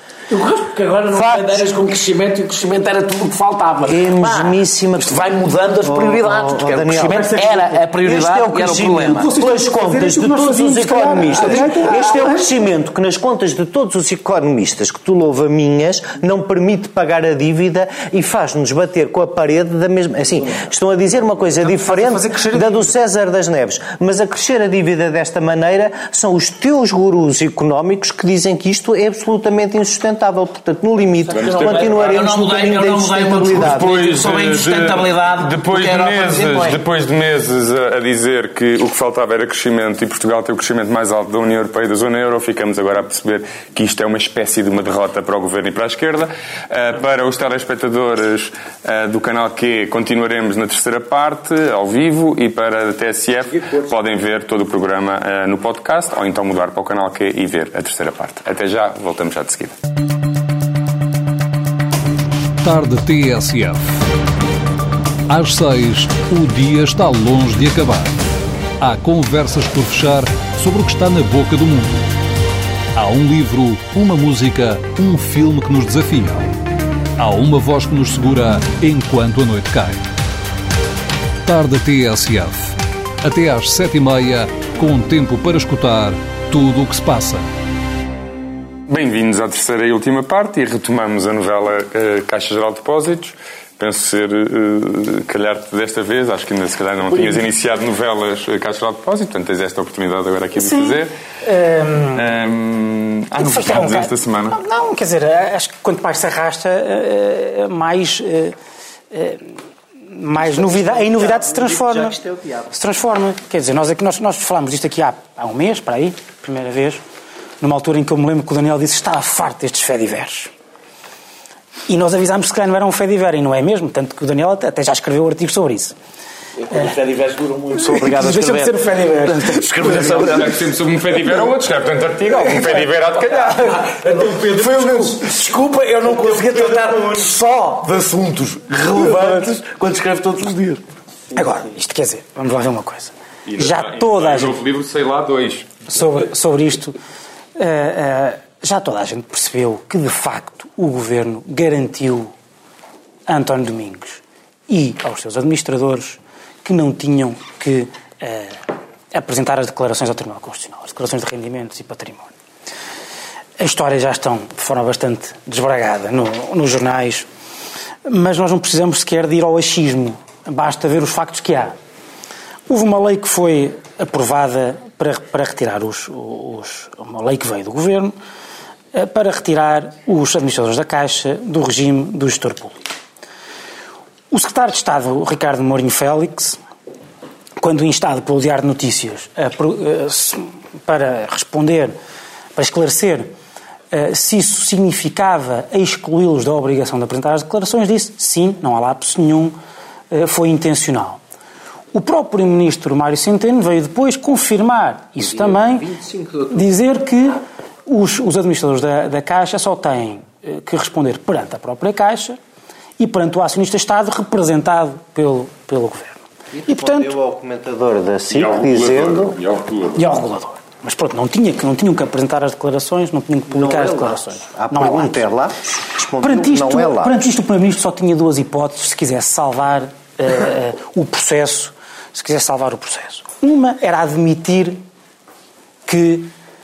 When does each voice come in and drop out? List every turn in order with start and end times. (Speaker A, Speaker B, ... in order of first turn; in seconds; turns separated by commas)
Speaker A: 0.3-9.3, Speaker B: 1.2-1.6, Speaker B: 3.8-5.3, Speaker B: 5.8-33.9, Speaker C: 7.1-7.7, Speaker C: 9.1-12.4, Speaker A: 11.3-12.2, Speaker C: 21.6-22.9, Speaker A: 31.3-36.8, Speaker D: 31.3-32.2, Speaker D: 33.5-59.7, Speaker E: 62.6-64.0, Speaker E: 65.3-68.2, Speaker E: 68.8-72.1, Speaker E: 73.0-76.5, Speaker E: 77.2-80.0, Speaker E: 81.4-87.4, Speaker D: 88.9-101.1, Speaker C: 97.1-97.4, Speaker C: 100.5-102.3, Speaker D: 102.1-104.6, Speaker C: 103.3-108.5, Speaker C: 109.1-109.5, Speaker C: 110.1-112.2, Speaker B: 110.3-112.7, Speaker C: 112.7-117.0, Speaker C: 117.6-120.5, Speaker C: 121.9-125.9, Speaker A: 126.6-130.7, Speaker C: 127.8-130.2, Speaker D: 129.8-133.8, Speaker A: 133.5-140.8, Speaker B: 136.5-137.2, Speaker C: 141.3-144.6, Speaker D: 143.5-145.7, Speaker C: 145.9-146.9, Speaker C: 147.5-152.3, Speaker C: 153.3-162.3, Speaker C: 163.6-167.3, Speaker C: 168.1-171.8, Speaker C: 172.7-178.1, Speaker C: 178.9-182.8, Speaker C: 184.3-186.6, Speaker C: 187.6-191.9, Speaker C: 192.6-193.3, Speaker C: 193.9-199.5, Speaker C: 200.1-201.2, Speaker C: 201.9-212.4, Speaker C: 213.0-217.1, Speaker B: 216.5-219.4, Speaker D: 218.3-220.0, Speaker C: 219.9-225.2, Speaker B: 223.5-227.3, Speaker C: 226.2-234.8, Speaker C: 235.8-236.3